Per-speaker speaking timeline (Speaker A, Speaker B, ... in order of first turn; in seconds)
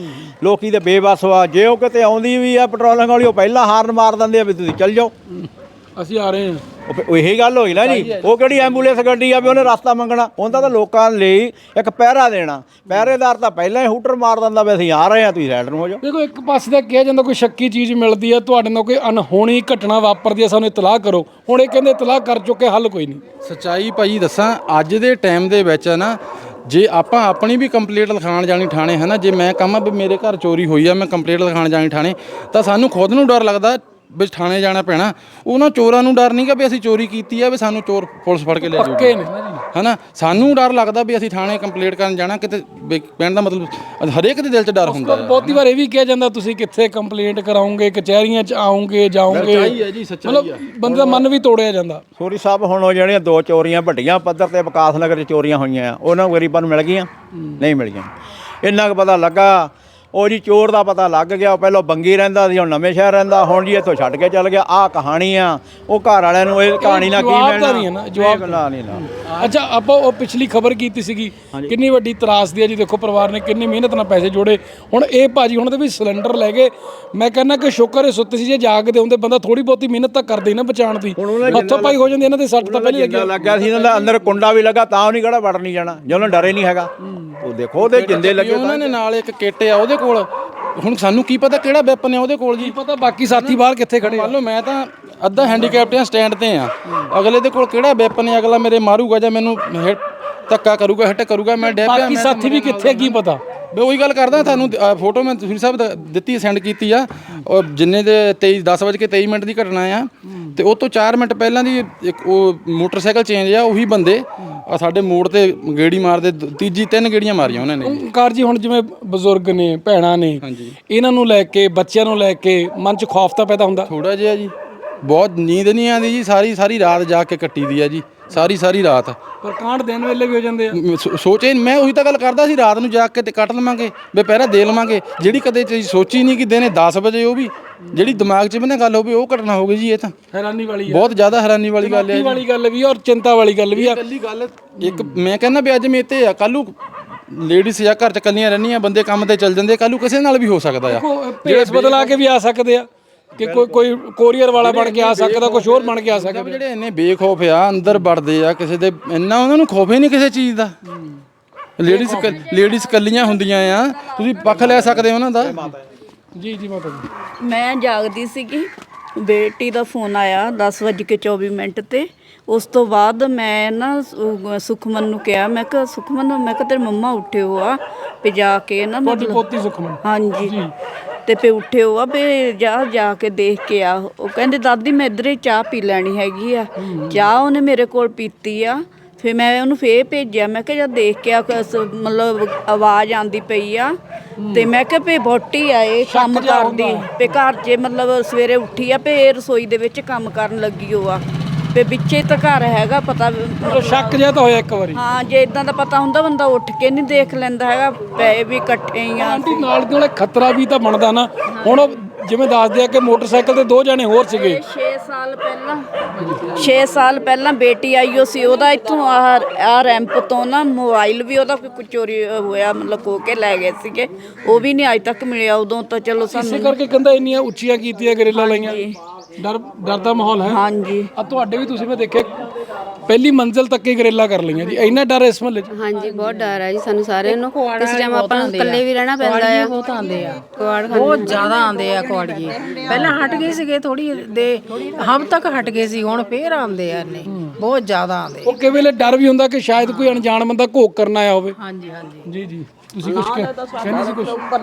Speaker A: 0.4-5.1, 6.9-16.0, 50.9-51.2, 52.2-58.1, 58.6-69.0, 81.2-88.9, 153.4-153.8
Speaker B: 5.3-6.6, 16.0-23.2, 38.6-39.6, 44.8-52.0, 66.8-84.4, 87.1-87.4, 92.6-94.3, 101.6-103.4, 117.8-123.9, 129.4-130.8, 140.3-141.1, 141.8-144.0, 144.8-145.2, 150.8-156.6, 161.8-162.4, 166.3-167.1, 179.0-180.7, 186.8-187.2, 194.4-194.7, 196.1-197.1, 203.7-205.0, 209.2-214.6, 226.3-228.8, 229.4-230.6, 231.2-232.4, 233.0-235.7, 247.3-247.5, 248.4-251.6, 252.2-254.4
Speaker C: 7.8-8.9, 23.4-39.2, 39.7-45.6, 49.3-51.0, 87.8-103.2, 103.7-118.0, 120.4-120.8, 123.9-129.2, 130.7-140.1, 140.9-142.4, 143.7-146.7, 147.3-152.2, 154.6-160.7, 161.8-165.6
Speaker D: 167.4-179.4, 180.0-180.6, 181.2-193.9, 194.5-201.2, 201.7-204.2, 204.9-209.7, 214.3-215.8, 216.4-226.8, 228.3-228.9, 230.4-231.1
Speaker E: 235.7-239.7, 240.4-241.6
Speaker F: 237.2-248.5, 249.8-250.2, 251.6-252.3